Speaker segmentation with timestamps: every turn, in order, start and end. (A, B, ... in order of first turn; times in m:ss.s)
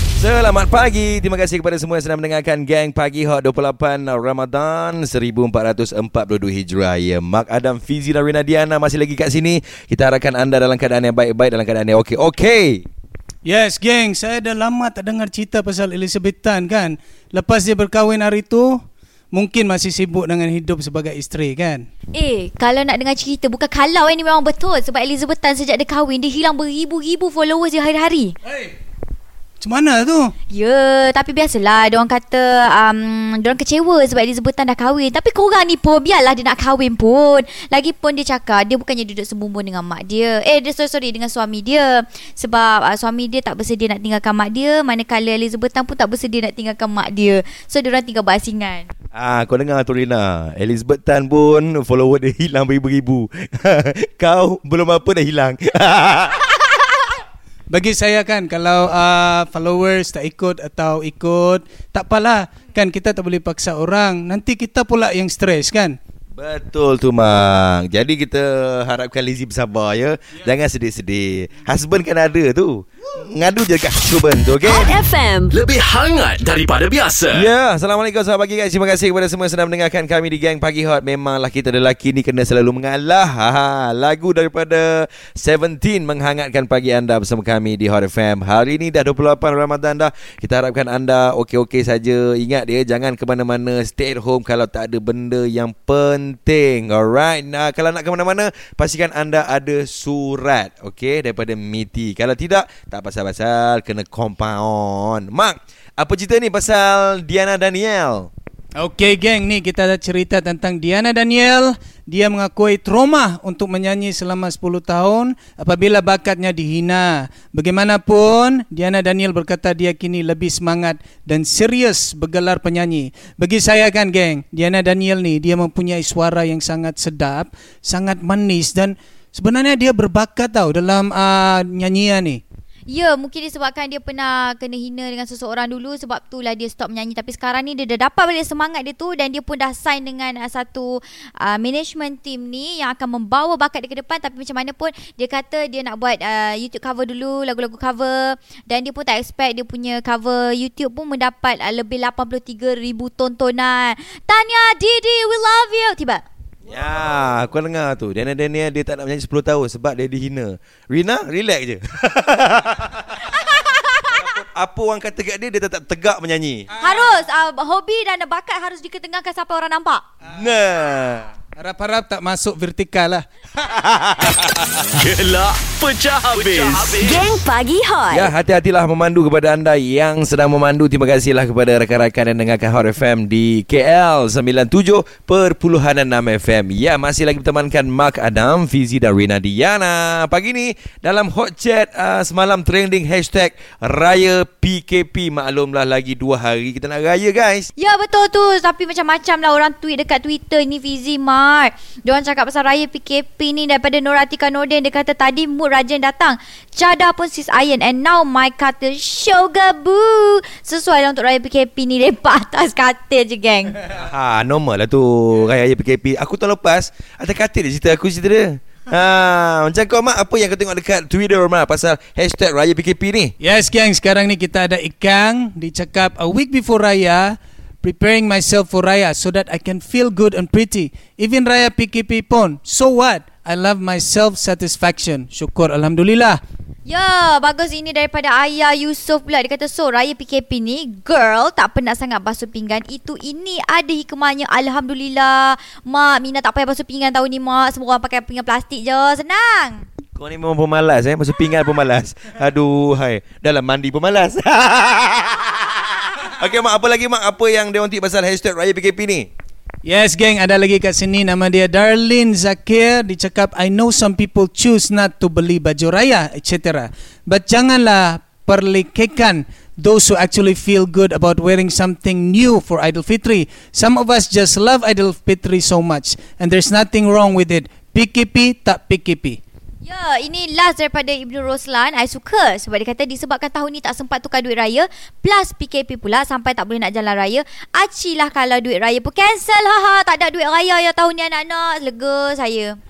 0:00.2-0:12.8 A
0:13.4-0:21.9 B
0:22.1-0:28.3 C
0:28.5-0:28.7 B
0:29.6-0:30.3 B
0:30.5-0:48.9 C
0:49.1-0:56.6 A
0:57.7-1:06.0 B
1:06.4-1:14.9 A
1:14.6-1:15.5 D
1:15.5-1:17.5 E
1:17.3-1:48.3 A
1:48.8-2:12.4 B
2:12.9-2:36.2 C
2:36.6-2:43.2 A
2:43.2-2:44.1 C
2:44.1-2:46.7 A
2:46.8-2:50.0 C
2:50.3-2:51.3 A
2:51.6-2:53.2 B
2:53.6-2:54.8 A
2:54.9-2:57.2 E
2:57.0-2:58.3 D
2:58.1-3:17.7 A
3:17.8-3:33.8 C
3:33.9-3:43.3 A
3:43.4-3:56.4 B
3:56.8-4:09.8 C
4:10.2-4:19.3 A
4:19.8-4:39.4 B
4:39.8-4:52.8 C